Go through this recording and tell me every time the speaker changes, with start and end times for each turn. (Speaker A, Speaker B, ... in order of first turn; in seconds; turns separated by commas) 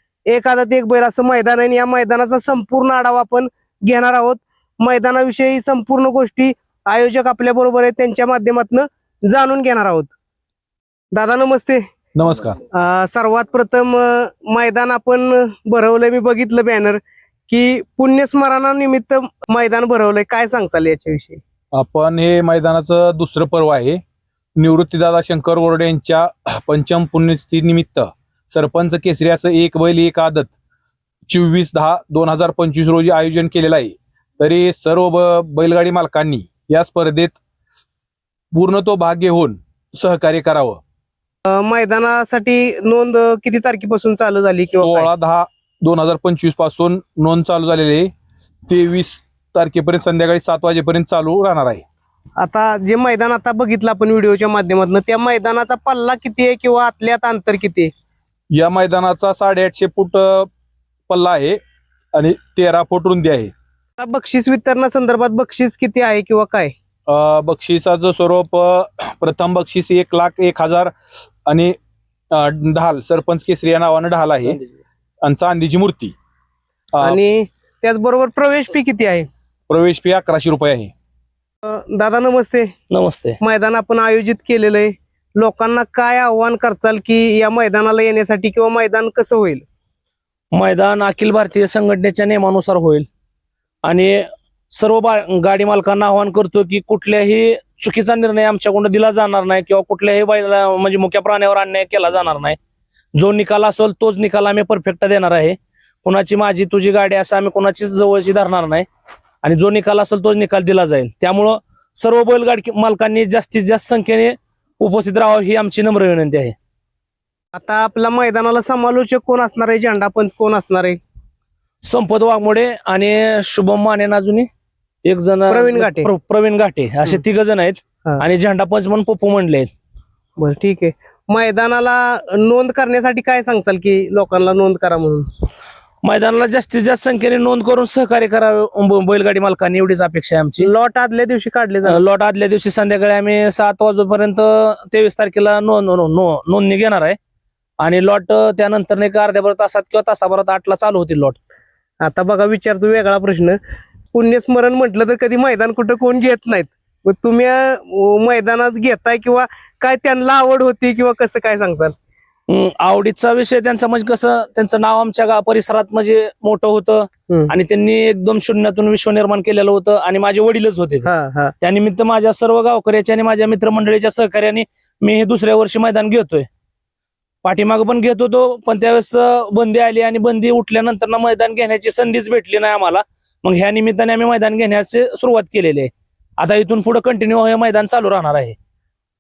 Speaker A: 0.3-10.1, Speaker A: 11.1-11.8, Speaker B: 12.2-12.6, Speaker A: 12.7-21.4, Speaker B: 21.7-24.0, Speaker B: 24.6-30.5, Speaker B: 31.3-37.4, Speaker B: 38.5-40.8, Speaker A: 41.5-45.1, Speaker B: 44.8-48.1, Speaker B: 48.7-51.8, Speaker A: 52.4-57.9, Speaker B: 58.5-60.5, Speaker B: 61.1-61.6, Speaker B: 62.1-63.5, Speaker A: 64.0-66.7, Speaker B: 67.1-70.9, Speaker B: 71.5-71.8, Speaker B: 72.3-74.6, Speaker B: 75.2-76.1, Speaker B: 76.9-77.2, Speaker A: 77.0-79.3, Speaker B: 79.7-80.9, Speaker A: 81.6-82.7, Speaker C: 82.9-83.4, Speaker A: 83.4-89.6, Speaker C: 90.5-93.1, Speaker C: 93.8-102.6, Speaker C: 103.2-108.9, Speaker C: 109.4-116.5, Speaker A: 117.5-121.0, Speaker C: 121.8-124.5, Speaker C: 125.0-129.7, Speaker A: 125.5-126.1, Speaker A: 130.4-135.3, Speaker C: 136.0-140.7, Speaker A: 140.6-142.0, Speaker C: 141.9-147.2, Speaker C: 147.8-151.4, Speaker A: 152.0-153.6, Speaker A: 154.1-161.9, Speaker C: 162.5-171.1, Speaker A: 171.1-171.5, Speaker C: 171.6-176.5, Speaker C: 177.4-188.6